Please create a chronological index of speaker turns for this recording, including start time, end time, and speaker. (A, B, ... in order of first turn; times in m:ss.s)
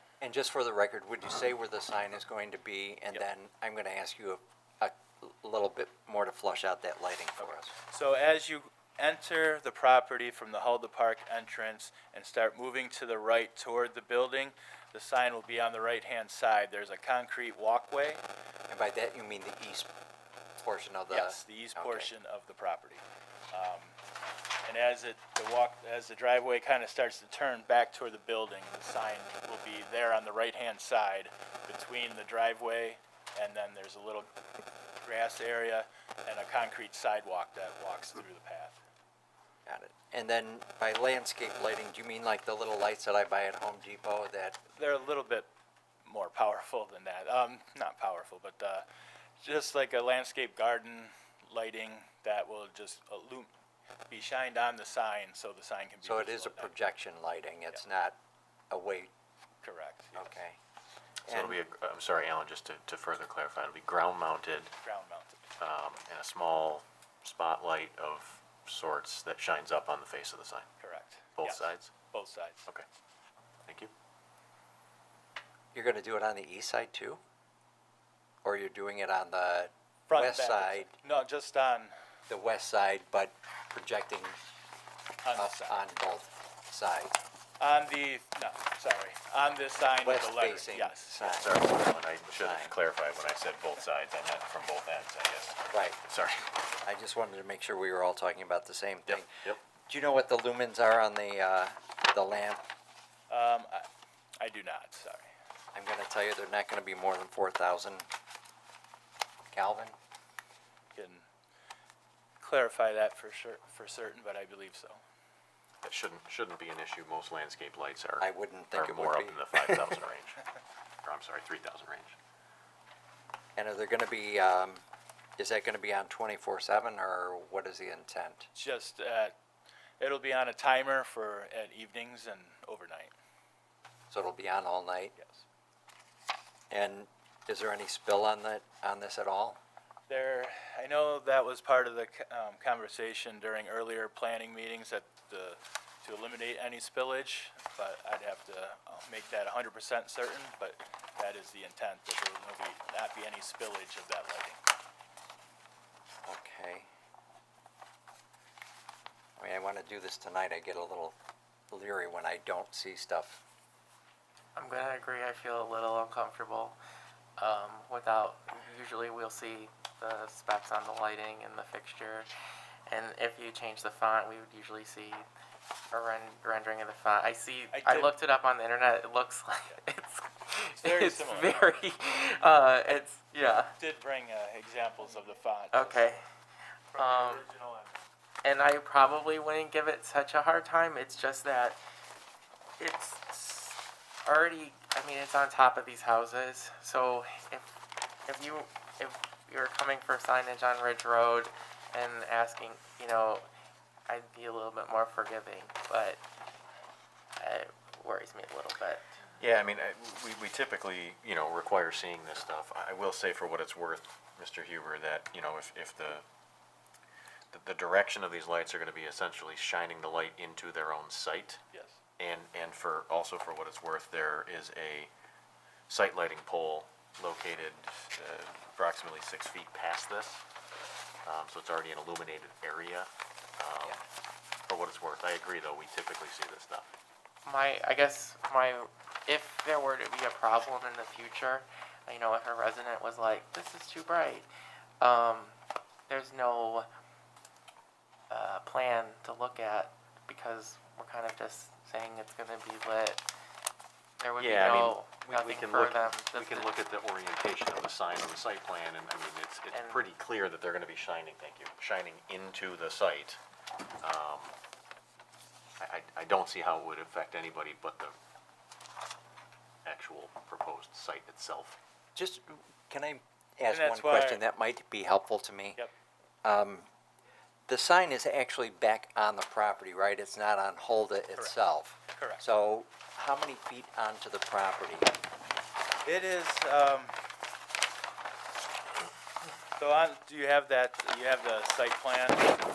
0:00.2-0:07.7 A
0:07.4-0:18.2 B
0:18.7-0:19.9 A
0:20.6-0:22.1 A
0:21.1-0:24.0 B
0:24.6-0:34.3 B
0:35.0-0:38.8 B
0:39.7-0:44.6 A
0:44.7-0:45.5 B
0:46.0-0:48.8 B
0:49.4-0:53.5 B
0:54.1-0:56.7 B
0:56.0-0:58.2 A
0:58.7-0:59.1 A
0:59.6-1:00.4 B
1:00.2-1:00.6 A
1:01.3-1:01.6 A
1:01.3-1:04.7 C
1:04.8-1:05.4 B
1:05.6-1:10.7 C
1:10.8-1:12.6 B
1:11.4-1:11.9 C
1:15.7-1:17.2 A
1:18.4-1:21.0 A
1:20.1-1:21.9 B
1:22.3-1:24.4 A
1:25.2-1:25.9 B
1:25.3-1:27.2 A
1:27.6-1:31.2 B
1:30.0-1:31.6 A
1:31.2-1:36.5 C
1:32.4-1:32.7 A
1:35.7-1:36.0 A
1:36.8-1:42.6 A
1:39.1-1:39.6 C
1:43.3-1:43.9 B
1:44.4-1:45.3 B
1:45.7-1:48.1 A
1:49.5-1:49.9 A
1:50.9-1:51.2 B
1:52.4-1:55.0 B
1:55.8-2:00.4 C
1:58.2-1:59.8 A
2:01.0-2:02.2 C
2:03.6-2:04.8 A
2:05.4-2:08.5 A
2:08.5-2:09.3 B
2:10.0-2:13.1 B
2:14.1-2:15.1 A
2:15.2-2:15.4 B
2:16.7-2:19.6 A
2:20.1-2:34.6 B
2:36.2-2:36.9 A
2:39.4-2:41.2 A
2:41.7-2:43.4 A
2:44.5-2:46.8 D
2:47.4-2:52.3 D
2:52.9-2:55.3 D
2:55.9-3:03.7 D
2:57.7-2:58.1 B
3:00.7-3:01.6 B
3:03.8-3:06.1 B
3:05.7-3:06.2 D
3:06.9-3:07.5 D
3:06.9-3:08.0 B
3:08.4-3:11.8 D
3:12.8-3:17.7 D
3:18.2-3:23.5 D
3:24.1-3:26.2 D
3:27.4-3:29.0 D
3:29.4-3:36.2 C
3:37.5-3:41.6 C
3:41.7-3:42.0 B
3:42.2-3:45.1 C
3:45.9-3:50.4 C
3:51.2-3:54.0 C
3:54.7-3:56.9 C
3:57.5-4:04.5 D
4:05.0-4:05.6 D
4:06.1-4:06.9 D
4:08.3-4:13.2 D
4:14.2-4:16.8 D
4:14.4-4:23.4 C
4:19.7-4:20.1 D
4:24.0-4:24.6 C
4:25.8-4:28.1 C
4:29.8-4:31.8 C
4:32.2-4:35.8 A
4:33.7-4:34.4 B
4:36.4-4:36.9 A
4:37.7-4:45.1 A
4:42.1-4:42.4 B
4:46.0-4:47.1 B
4:49.8-4:52.5 B